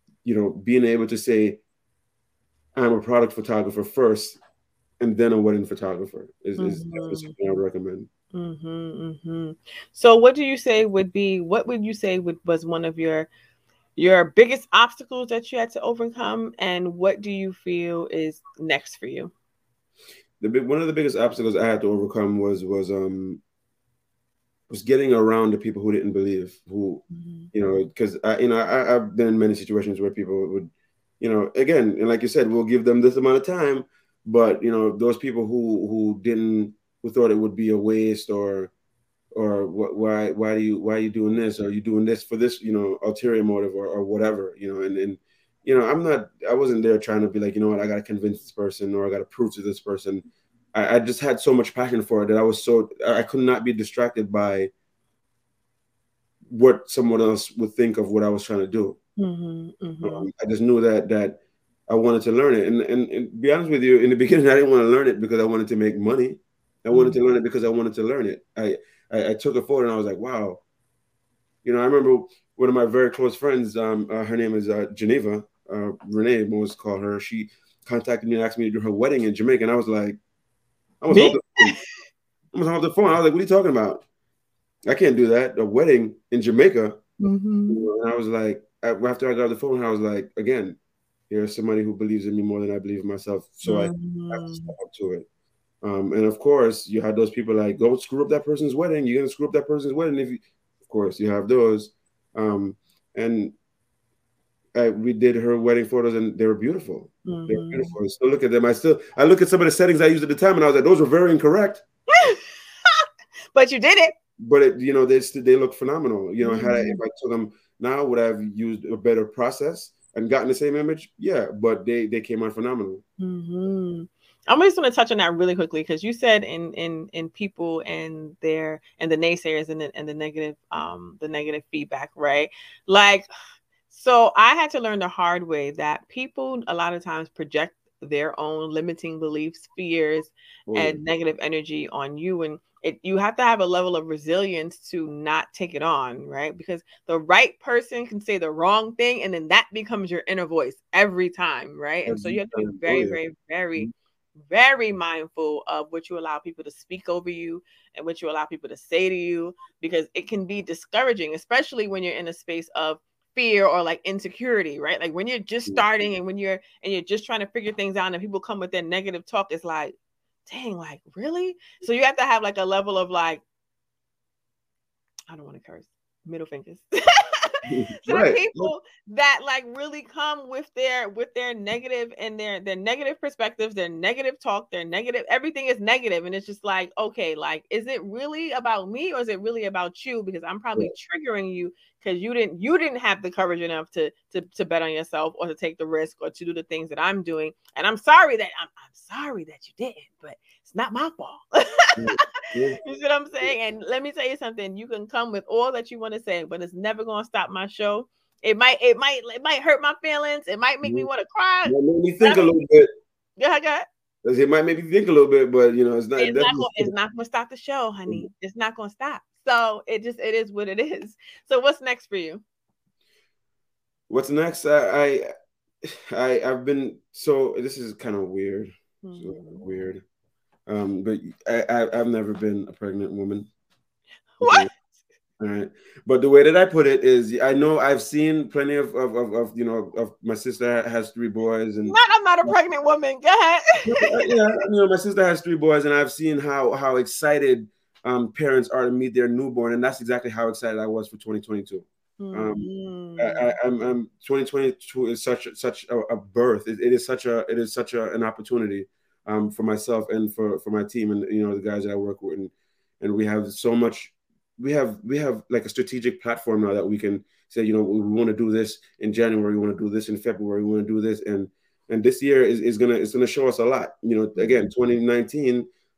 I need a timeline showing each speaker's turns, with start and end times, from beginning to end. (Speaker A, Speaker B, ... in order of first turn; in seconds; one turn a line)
Speaker A: 0.2-1.6
Speaker A: 2.8-4.4
Speaker A: 5.0-8.1
Speaker B: 6.6-7.3
Speaker B: 8.3-13.3
Speaker B: 14.0-19.3
Speaker A: 20.4-23.4
Speaker A: 24.7-38.7
Speaker B: 27.1-27.5
Speaker A: 39.4-54.7
Speaker A: 56.5-59.0
Speaker B: 59.2-60.3
Speaker A: 60.0-70.6
Speaker B: 66.9-67.2
Speaker A: 71.6-80.2
Speaker A: 81.0-81.8
Speaker B: 81.1-81.4
Speaker A: 82.5-84.0
Speaker A: 84.9-87.0
Speaker B: 87.2-87.9
Speaker A: 87.7-90.8
Speaker A: 91.3-95.3
Speaker B: 93.7-94.7
Speaker A: 95.8-103.5
Speaker A: 104.8-111.8
Speaker B: 107.3-108.0
Speaker B: 112.1-114.1
Speaker A: 114.4-123.0
Speaker B: 116.4-117.0
Speaker B: 123.2-133.3
Speaker B: 133.9-153.9
Speaker A: 140.7-141.0
Speaker A: 152.1-153.2
Speaker B: 154.5-173.4
Speaker B: 175.3-212.5
Speaker A: 177.7-178.7
Speaker A: 202.0-202.8
Speaker A: 210.8-211.1
Speaker A: 211.7-212.9
Speaker B: 213.4-213.9
Speaker A: 214.2-216.9
Speaker B: 216.2-222.4
Speaker A: 224.1-225.3
Speaker A: 225.8-230.0
Speaker B: 229.0-229.6
Speaker A: 230.7-233.5
Speaker B: 234.4-234.7
Speaker A: 234.4-234.7
Speaker A: 235.4-242.5
Speaker B: 241.9-244.3
Speaker A: 243.9-275.7
Speaker B: 252.2-253.9
Speaker B: 274.4-274.7